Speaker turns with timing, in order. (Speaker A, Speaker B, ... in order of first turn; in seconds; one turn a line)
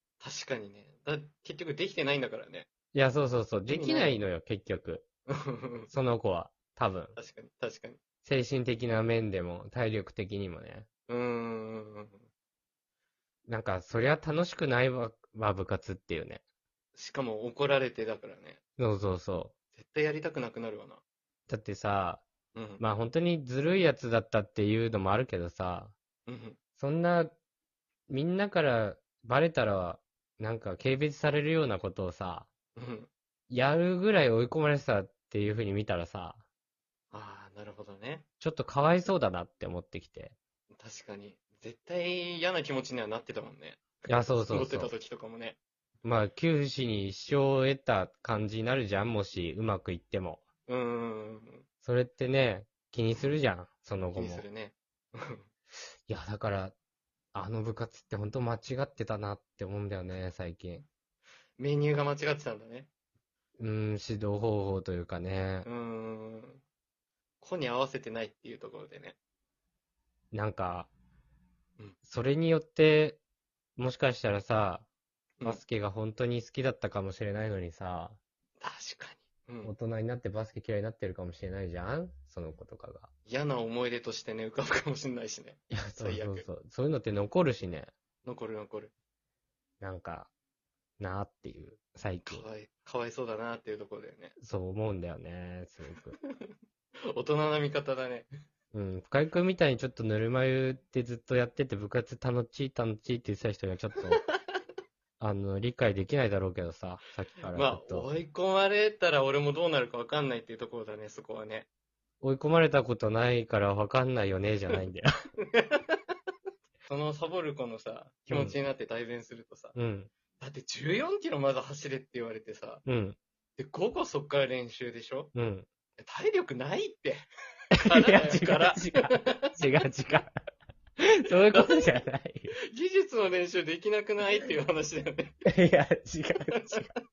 Speaker A: 0.2-2.7
Speaker B: 2.9-5.0
Speaker A: 3.7-4.2
Speaker A: 5.3-5.9
Speaker B: 5.9-7.2
Speaker A: 7.2-8.0
Speaker B: 8.2-10.9
Speaker A: 11.1-12.2
Speaker B: 13.5-16.4
Speaker A: 16.9-18.6
Speaker B: 18.8-19.5
Speaker A: 19.8-21.0
Speaker B: 21.5-22.2
Speaker A: 22.5-22.8
Speaker B: 22.8-25.9
Speaker A: 26.3-26.6
Speaker B: 26.8-27.3
Speaker B: 28.1-32.5
Speaker A: 32.8-33.1
Speaker B: 33.5-36.4
Speaker A: 37.1-38.2
Speaker B: 38.4-40.3
Speaker A: 40.8-45.6
Speaker B: 44.1-44.9
Speaker B: 46.0-50.4
Speaker A: 50.7-51.6
Speaker B: 51.8-54.4
Speaker A: 54.1-55.5
Speaker B: 56.1-56.7
Speaker B: 57.3-60.9
Speaker A: 61.6-62.9
Speaker B: 63.6-65.7
Speaker A: 65.6-66.6
Speaker A: 67.4-69.2
Speaker B: 70.3-70.9
Speaker B: 72.0-73.2
Speaker B: 73.8-74.9
Speaker B: 75.4-78.2
Speaker A: 78.6-79.7
Speaker B: 79.6-83.1
Speaker A: 83.3-86.5
Speaker B: 85.7-87.9
Speaker A: 88.2-88.9
Speaker B: 89.8-90.3
Speaker B: 91.0-92.5
Speaker A: 92.2-94.3
Speaker B: 94.4-96.1
Speaker A: 96.2-96.5
Speaker A: 97.1-98.3
Speaker B: 98.7-104.2
Speaker B: 105.2-108.1
Speaker A: 107.5-111.7
Speaker B: 112.2-115.1
Speaker A: 115.5-116.0
Speaker A: 116.8-119.7
Speaker B: 118.3-118.6
Speaker B: 119.7-120.1
Speaker A: 120.4-122.8
Speaker B: 122.8-123.2
Speaker A: 123.6-125.3
Speaker B: 125.3-125.7
Speaker A: 126.0-127.2
Speaker B: 127.8-130.3
Speaker A: 127.8-129.5
Speaker B: 131.0-132.5
Speaker A: 131.5-135.4
Speaker B: 135.4-136.8
Speaker A: 136.5-136.8